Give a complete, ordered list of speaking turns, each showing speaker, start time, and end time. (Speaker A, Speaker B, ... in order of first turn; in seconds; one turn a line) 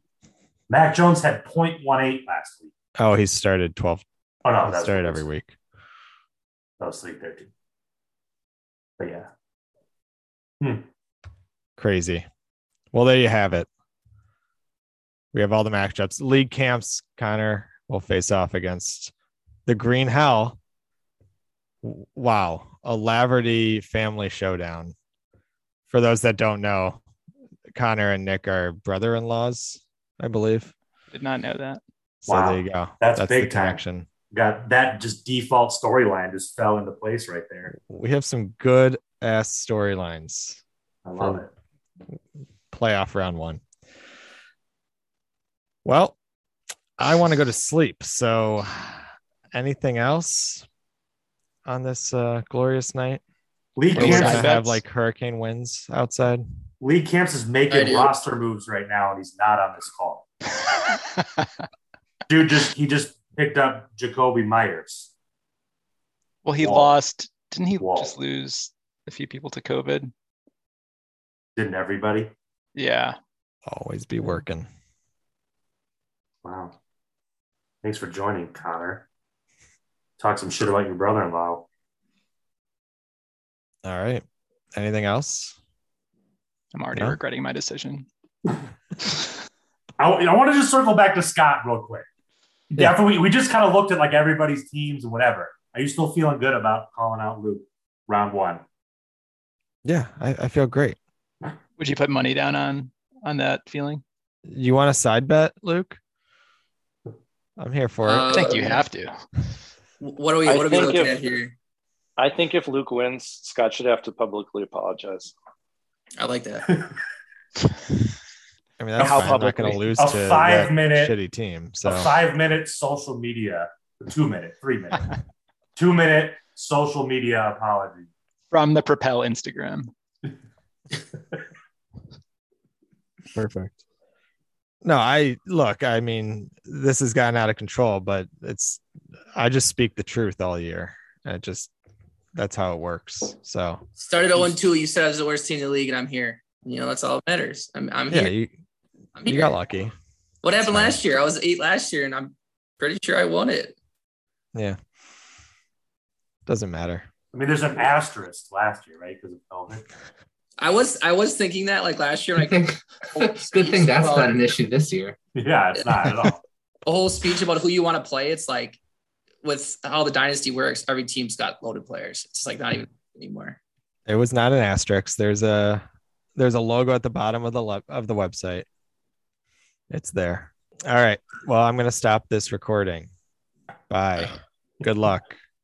Speaker A: 0.7-2.7
Speaker B: 3.0-4.0
Speaker A: 4.4-5.3
Speaker B: 4.6-5.6
Speaker A: 6.8-7.5
Speaker A: 9.0-9.3
Speaker B: 11.8-12.3
Speaker B: 12.9-13.7
Speaker B: 15.3-19.1
Speaker B: 19.7-20.6
Speaker B: 21.8-24.9
Speaker B: 25.9-27.0
Speaker B: 27.8-30.7
Speaker C: 31.1-31.8
Speaker B: 32.3-34.1
Speaker A: 32.3-37.7
Speaker B: 37.7-40.6
Speaker A: 41.0-41.5
Speaker B: 42.7-43.6
Speaker B: 45.9-46.2
Speaker B: 47.0-49.0
Speaker B: 49.5-50.6
Speaker B: 51.7-53.2
Speaker A: 53.8-54.4
Speaker C: 54.0-54.8
Speaker B: 54.0-56.5
Speaker A: 56.8-60.3
Speaker D: 57.7-58.1
Speaker C: 60.7-61.4
Speaker A: 62.3-65.1
Speaker C: 66.5-70.1
Speaker A: 66.6-66.9
Speaker A: 67.8-68.1
Speaker A: 71.6-72.3
Speaker C: 72.8-73.2
Speaker B: 73.7-74.7
Speaker A: 76.4-76.8
Speaker A: 77.8-79.1
Speaker A: 80.2-81.7
Speaker B: 83.8-84.2
Speaker B: 84.8-85.6
Speaker C: 86.7-88.1
Speaker A: 90.0-92.1
Speaker A: 92.7-98.6
Speaker B: 99.8-101.0
Speaker C: 101.8-104.0
Speaker B: 104.5-106.0
Speaker B: 107.6-108.4
Speaker D: 108.1-108.8
Speaker C: 108.3-109.1
Speaker D: 110.0-111.5
Speaker E: 110.5-111.1
Speaker E: 112.2-115.3
Speaker D: 116.2-116.7
Speaker B: 118.8-122.1
Speaker C: 119.0-119.9
Speaker A: 119.0-119.4
Speaker A: 120.0-121.1
Speaker A: 121.8-125.2
Speaker A: 125.8-128.1
Speaker C: 128.5-129.9
Speaker B: 133.3-133.8
Speaker B: 134.8-138.8
Speaker B: 139.3-141.7
Speaker B: 142.3-143.8
Speaker D: 144.0-148.3
Speaker B: 148.1-148.5
Speaker D: 149.2-149.5
Speaker B: 149.2-149.9
Speaker D: 150.4-153.8
Speaker B: 150.6-151.0
Speaker B: 156.5-157.1
Speaker A: 157.3-159.9
Speaker D: 160.6-162.6
Speaker F: 162.4-165.2
Speaker D: 163.2-164.4
Speaker A: 165.4-166.4
Speaker D: 166.8-168.8
Speaker D: 169.4-173.6
Speaker B: 174.1-175.8
Speaker B: 176.4-178.7
Speaker B: 179.9-183.1
Speaker B: 183.9-185.3